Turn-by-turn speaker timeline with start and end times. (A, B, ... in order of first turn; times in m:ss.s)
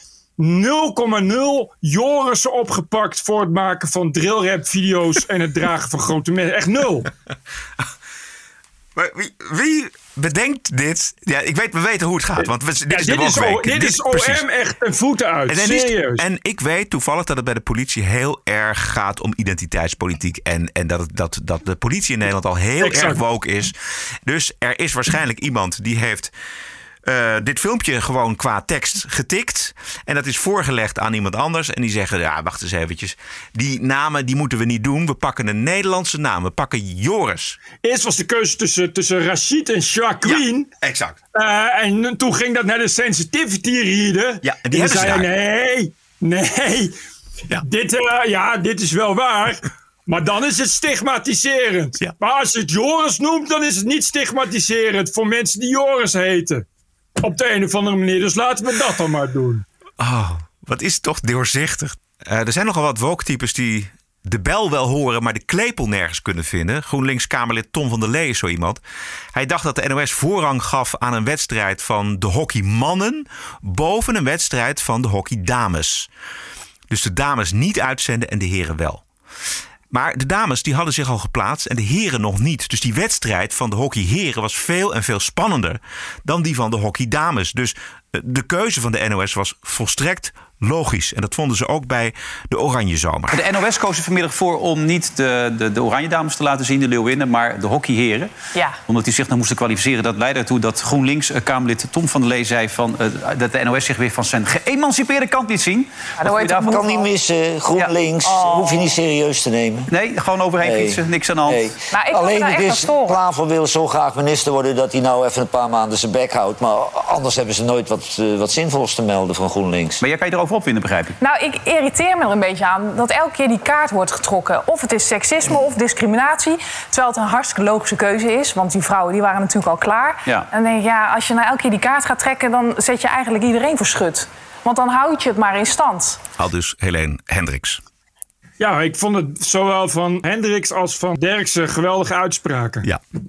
0:00.4-0:07.1 A
0:09.0-0:14.4 B
0:12.9-0:16.2 A
0:15.5-0:23.7 B
0:22.8-0:23.2 A
0:24.3-0:26.3 B
0:27.1-0:37.6 B
0:37.8-0:40.7 A
0:40.2-0:41.2 B
0:41.4-0:46.9 A
0:44.4-0:45.3 B
0:47.6-0:56.6 A
0:57.2-0:59.6 A
1:00.0-1:08.8 B
1:09.3-1:16.1 B
1:16.9-1:19.0 B
1:19.9-1:33.4 B
1:33.3-1:38.3 C
1:38.9-1:46.8 C
1:46.2-1:47.1 D
1:46.6-1:49.9 E
1:48.2-1:49.0 D
1:49.9-1:51.6 C
1:50.6-2:00.0 E
1:51.9-1:53.2 D
2:00.0-2:01.2 C
2:01.2-2:16.2 D
2:16.4-2:17.8 B
2:18.6-2:22.9 A